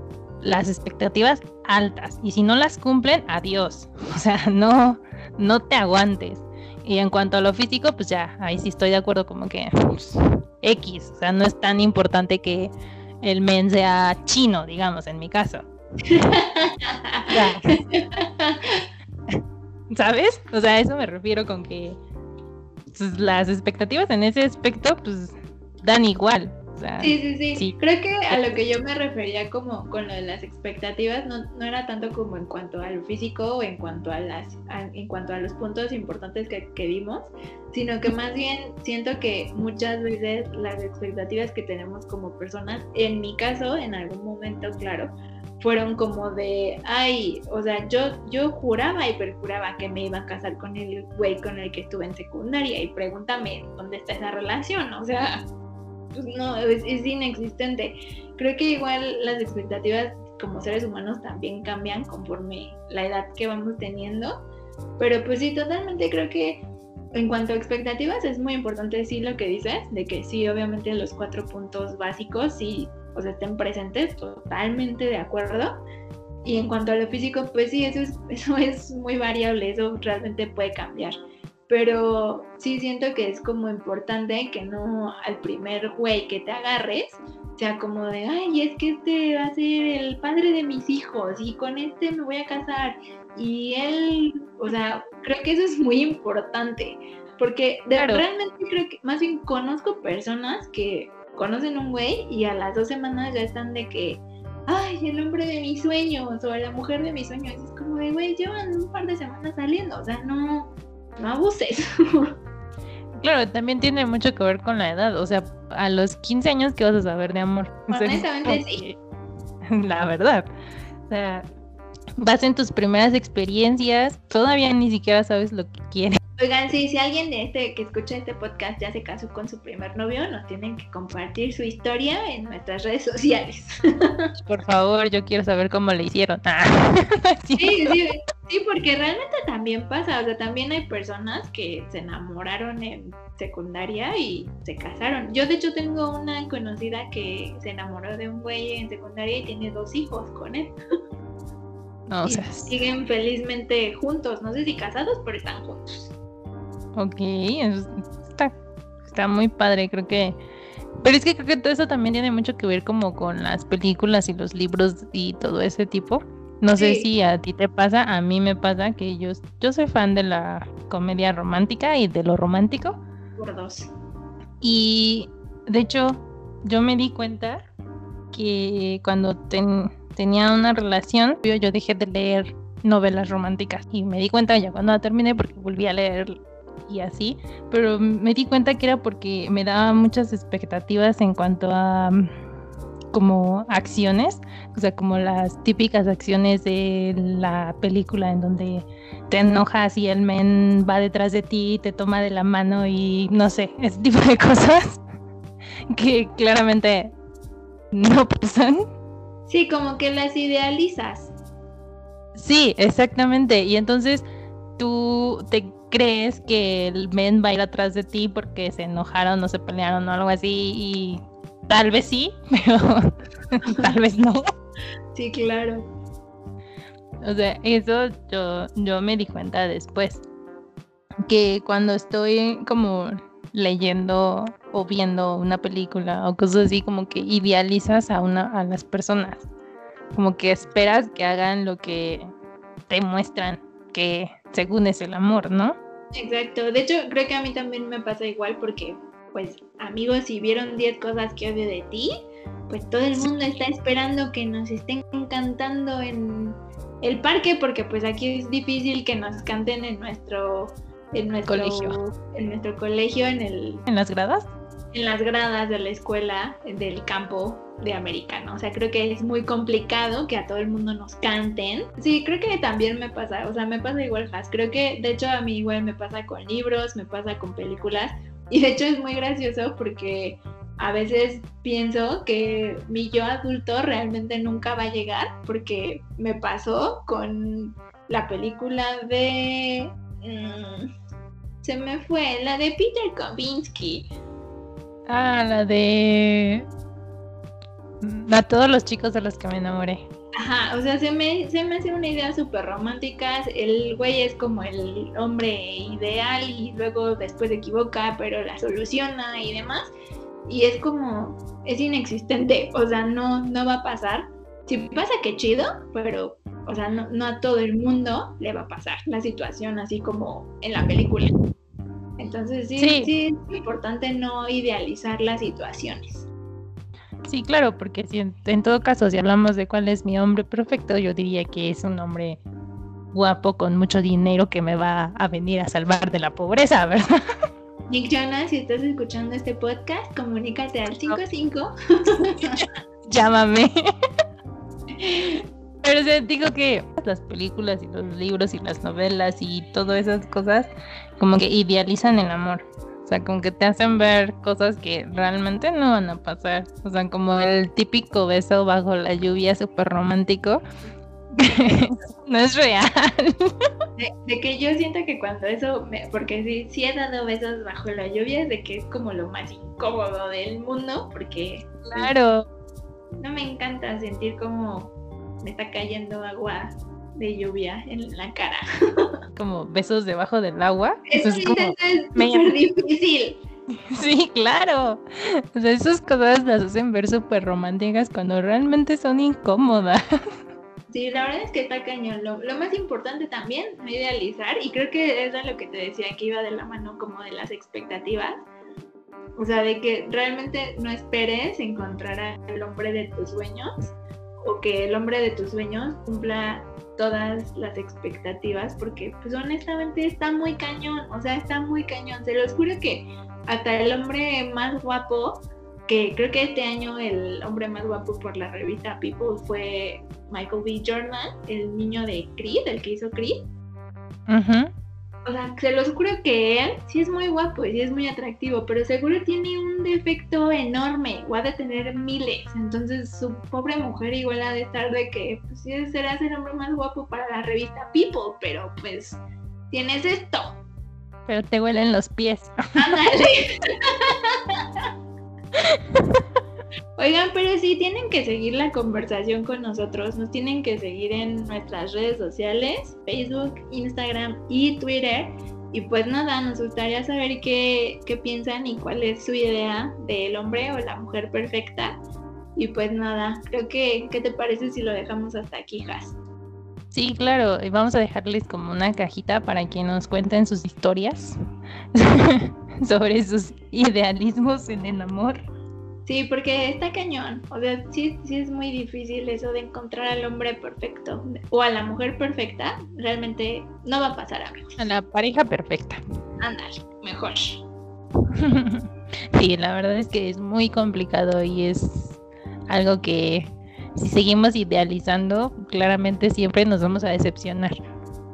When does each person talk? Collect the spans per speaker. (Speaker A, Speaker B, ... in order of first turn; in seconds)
Speaker A: 0.4-12.7, 13.2-15.7, 17.3-17.8, 19.9-22.0, 22.9-27.8, 98.0-98.2, 113.2-119.0, 119.7-120.5, 121.1-121.5, 122.2-126.2, 134.4-138.0, 152.1-152.7, 157.0-158.5, 159.1-160.4, 161.0-173.0, 174.6-177.7, 178.3-192.3, 193.1-205.0, 205.9-207.1, 207.9-208.8, 212.3-214.2, 214.8-224.4, 227.2-230.2, 231.3-239.5, 240.1-242.3, 242.9-245.8, 261.5-262.0, 263.9-264.5, 295.1-296.7, 298.0-300.0, 322.8-323.1, 327.3-332.4, 333.1-337.1, 342.6-343.7, 345.8-360.6, 361.4-363.5, 371.9-372.5, 379.4-382.5, 383.9-390.0, 424.3-424.7, 441.3-442.8, 445.6-446.2, 466.9-471.4, 471.9-475.4, 484.8-486.0, 488.3-497.8
Speaker B: 16.0-18.9, 27.0-55.5, 56.1-64.4, 65.0-75.8, 76.4-81.2, 81.7-112.3, 117.9-118.8, 126.4-134.3, 137.6-150.7, 152.2-156.1, 166.8-167.1, 173.4-173.9, 209.5-211.3, 223.7-223.9, 225.1-225.9, 246.1-252.1, 252.7-263.9, 264.9-290.9, 291.6-294.1, 300.4-309.9, 310.5-321.3, 322.2-326.3, 337.9-342.7, 345.0-345.4, 361.4-361.8, 364.0-372.1, 373.2-379.1, 381.1-383.4, 390.9-398.4, 399.4-423.5, 425.3-439.2, 439.7-440.6, 442.8-444.8, 447.0-462.0, 462.6-466.2, 476.1-484.8, 486.4-487.6